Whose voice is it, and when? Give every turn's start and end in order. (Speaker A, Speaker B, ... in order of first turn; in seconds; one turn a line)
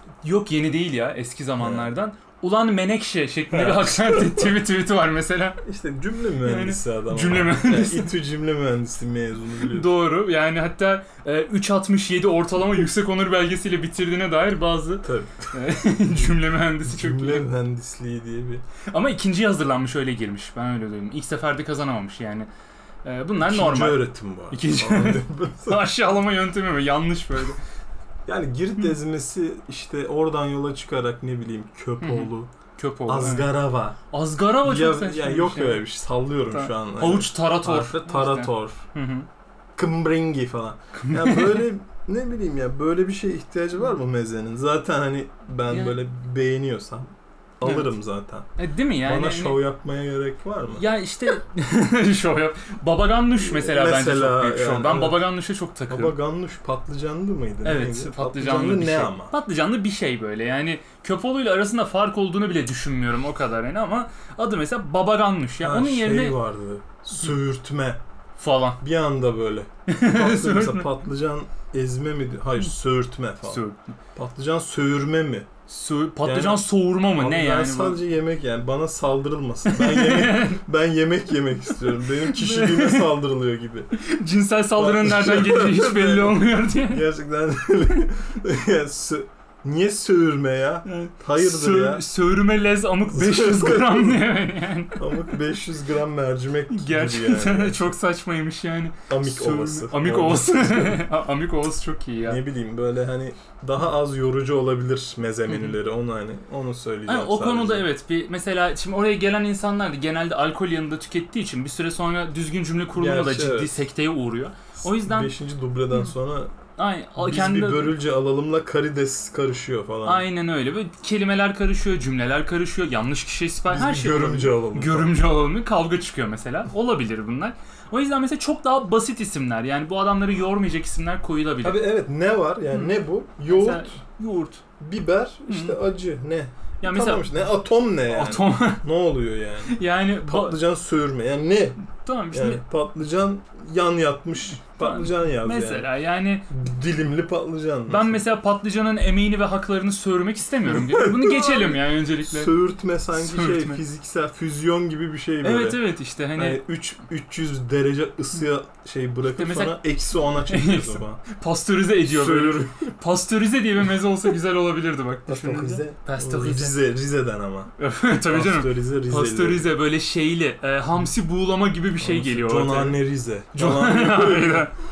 Speaker A: 0.2-5.6
Speaker B: 1.6-1.9
Speaker B: 3.5-4.5
Speaker B: 5.6-9.9
Speaker A: 6.4-8.1
Speaker A: 9.6-17.5
Speaker B: 15.0-15.5
Speaker B: 16.8-18.6
Speaker A: 18.8-22.5
Speaker A: 23.0-27.6
Speaker B: 23.4-25.8
Speaker B: 28.3-32.5
Speaker A: 32.0-33.5
Speaker B: 33.1-34.0
Speaker A: 34.1-35.8
Speaker B: 34.6-38.9
Speaker A: 36.5-39.3
Speaker B: 39.8-47.1
Speaker A: 40.9-41.6
Speaker A: 45.7-46.0
Speaker B: 47.6-48.5
Speaker A: 47.6-47.9
Speaker A: 48.6-49.6
Speaker B: 49.0-50.8
Speaker A: 50.7-56.1
Speaker B: 53.4-55.2
Speaker B: 55.9-59.3
Speaker A: 57.6-66.4
Speaker B: 65.6-68.0
Speaker A: 68.3-68.8
Speaker B: 68.8-73.6
Speaker A: 69.9-70.9
Speaker A: 73.4-73.9
Speaker B: 74.1-75.5
Speaker A: 75.7-78.0
Speaker B: 76.2-83.9
Speaker A: 79.7-80.6
Speaker A: 82.2-83.1
Speaker A: 83.9-87.0
Speaker B: 84.8-92.0
Speaker A: 90.8-95.3
Speaker B: 93.1-94.2
Speaker B: 95.0-97.9
Speaker A: 96.7-102.4
Speaker B: 99.1-101.0
Speaker B: 102.2-107.8
Speaker A: 105.5-105.8
Speaker A: 107.1-115.3
Speaker B: 112.9-113.8
Speaker B: 114.8-116.5
Speaker A: 116.8-118.0
Speaker B: 117.2-120.2
Speaker A: 120.0-131.8
Speaker B: 123.7-125.1
Speaker B: 131.6-134.0
Speaker A: 133.5-134.6
Speaker B: 134.8-145.9
Speaker A: 135.5-135.8
Speaker A: 136.8-137.3
Speaker A: 138.1-138.8
Speaker A: 139.7-140.6
Speaker A: 141.9-142.6
Speaker A: 144.8-146.5
Speaker B: 146.5-148.2
Speaker A: 147.9-152.5
Speaker B: 150.6-155.8
Speaker A: 153.1-153.8
Speaker A: 155.4-156.6
Speaker B: 156.3-161.2
Speaker A: 159.3-159.8
Speaker A: 160.5-166.8
Speaker B: 162.1-162.9
Speaker B: 165.3-167.7
Speaker A: 167.8-173.0
Speaker B: 168.3-169.7
Speaker B: 172.0-174.7
Speaker A: 173.5-174.7